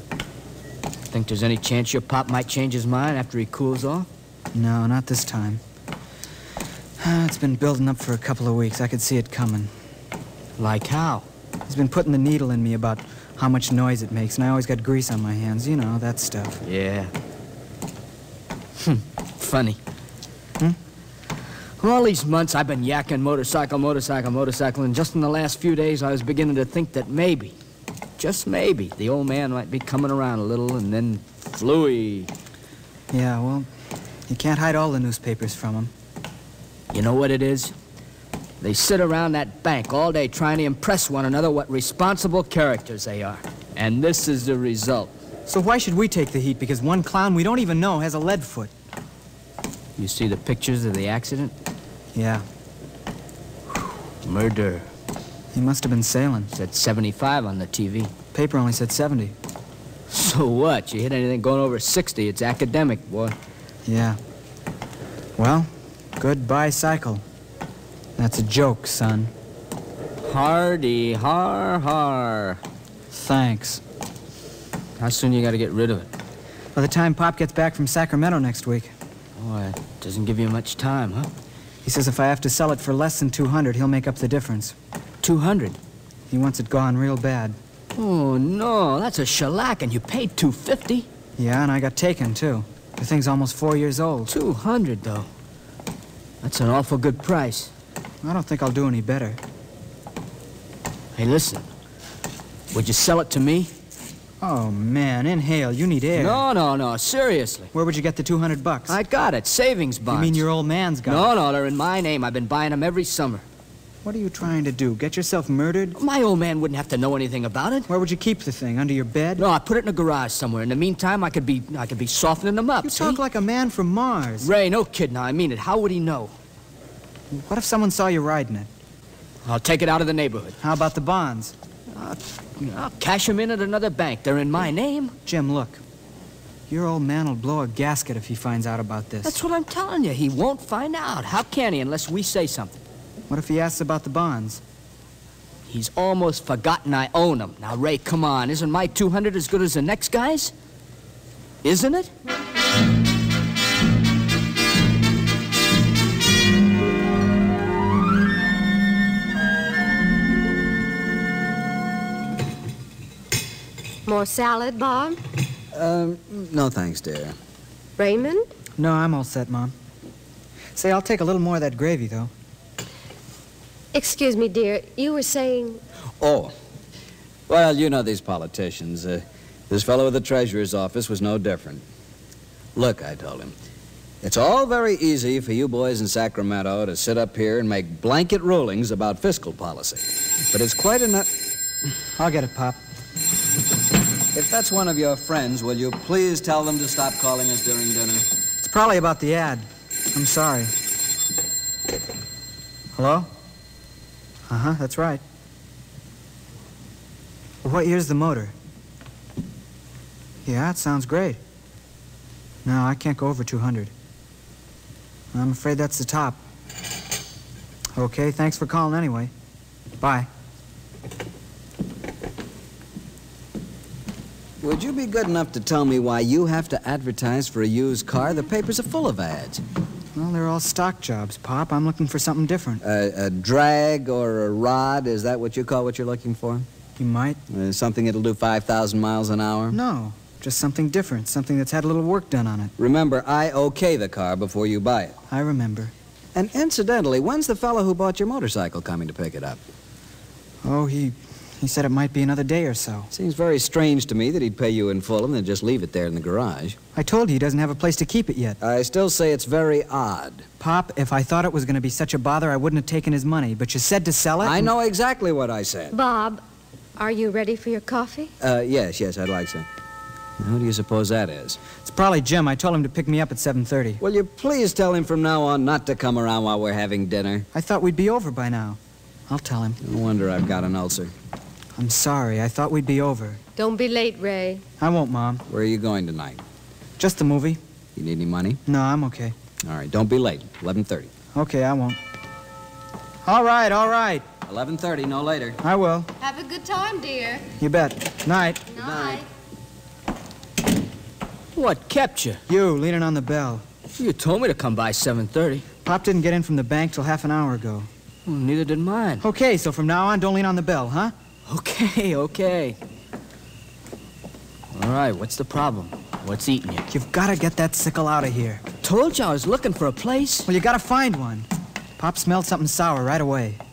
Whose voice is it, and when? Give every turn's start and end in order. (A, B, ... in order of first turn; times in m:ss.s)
0:01.1-0:04.1 A
0:04.5-0:05.6 B
0:07.0-0:09.7 B
0:10.6-0:11.2 A
0:11.7-0:16.6 B
0:16.6-0:17.1 A
0:18.8-0:19.8 A
0:21.8-0:27.5 A
0:28.2-0:32.3 A
0:33.1-0:33.7 B
0:34.3-0:35.9 B
0:36.9-0:37.7 A
0:38.6-0:45.1 A
0:45.5-0:48.7 B
0:50.0-0:51.5 A
0:52.1-0:52.4 B
0:54.2-0:54.9 A
0:55.5-0:56.5 B
0:56.5-0:58.1 A
0:58.3-0:59.3 B
1:00.1-1:03.4 A
1:03.9-1:04.2 B
1:05.4-1:07.2 B
1:08.2-1:09.3 B
1:10.2-1:12.6 A
1:13.1-1:13.8 B
1:15.0-1:16.1 A
1:16.8-1:18.9 B
1:19.4-1:21.3 A
1:21.8-1:24.8 B
1:25.2-1:25.8 A
1:26.3-1:27.6 B
1:28.0-1:31.1 A
1:31.4-1:34.3 B
1:34.3-1:35.3 A
1:36.4-1:37.7 A
1:38.2-1:39.4 B
1:41.2-1:41.6 A
1:42.7-1:43.7 A
1:44.4-1:46.4 B
1:46.2-1:47.7 A
1:47.7-1:48.9 B
1:48.9-1:50.4 A
1:50.1-1:51.3 B
1:51.0-1:53.4 A
1:54.0-1:56.0 B
1:55.9-1:57.9 A
1:57.9-1:59.4 B
1:59.4-2:03.2 A
2:02.8-2:04.5 B
2:04.4-2:06.3 A
2:07.3-2:08.7 B
2:09.4-2:10.6 A
2:10.6-2:11.5 B
2:11.9-2:15.2 A
2:15.2-2:15.8 B
2:16.7-2:19.4 B
2:19.2-2:22.8 A
2:23.3-2:24.6 B
2:25.7-2:30.5 A
2:31.6-2:32.1 A
2:44.0-2:45.2 C
2:45.7-2:47.4 D
2:48.0-2:48.5 C
2:48.8-2:49.7 B
2:50.8-2:52.3 B
2:53.9-2:55.8 C
2:56.2-2:56.5 D
2:57.5-3:01.8 D
3:02.8-3:03.5 D
3:04.2-3:11.3 D
3:12.2-3:12.8 B
3:14.3-3:18.3 D
3:18.6-3:20.7 B
3:23.0-3:23.3 B
3:24.5-3:25.2 B
3:27.6-3:28.5 B
3:30.4-3:31.4 B
3:32.6-3:33.9 B
3:35.3-3:36.4 B
3:38.0-3:39.3 B
3:40.0-3:40.3 B
3:44.6-3:49.6 D
3:50.1-3:52.8 B
3:52.8-3:56.7 D
3:57.0-3:57.4 B
3:57.5-3:59.8 D
3:59.7-4:02.7 B
4:02.8-4:05.2 D
4:05.3-4:05.9 B
4:06.4-4:09.6 D
4:10.6-4:13.1 B
4:13.1-4:16.8 D
4:16.9-4:18.6 B
4:18.6-4:20.4 D
4:20.6-4:24.7 B
4:24.4-4:25.9 D
4:25.9-4:26.4 C
4:27.0-4:28.3 C
4:28.4-4:29.7 D
4:30.4-4:31.6 D
4:31.8-4:34.0 B
4:34.0-4:37.5 D
4:37.5-4:39.8 B
4:39.8-4:41.1 D
4:41.8-4:43.4 B
4:43.6-4:44.6 C
4:44.8-4:45.4 B
4:45.5-4:46.4 D
4:47.0-4:47.6 B
4:47.9-4:48.6 D
4:48.6-4:49.4 B
4:49.6-4:51.1 D
4:51.4-4:52.0 B
4:53.2-4:54.2 B
4:54.4-4:55.6 D
4:55.6-4:56.1 B
4:56.2-4:57.5 C
4:57.6-4:58.6 B
4:58.7-4:59.2 C
4:58.8-4:59.2 D
5:01.5-5:02.4 A
5:02.5-5:03.6 B
5:04.0-5:05.6 A
5:05.8-5:07.9 B
5:08.2-5:09.2 A
5:09.2-5:11.1 B
5:11.4-5:12.8 A
5:14.7-5:16.9 A
5:16.9-5:18.6 B
5:18.8-5:20.5 A
5:20.5-5:21.5 B
5:22.0-5:23.6 B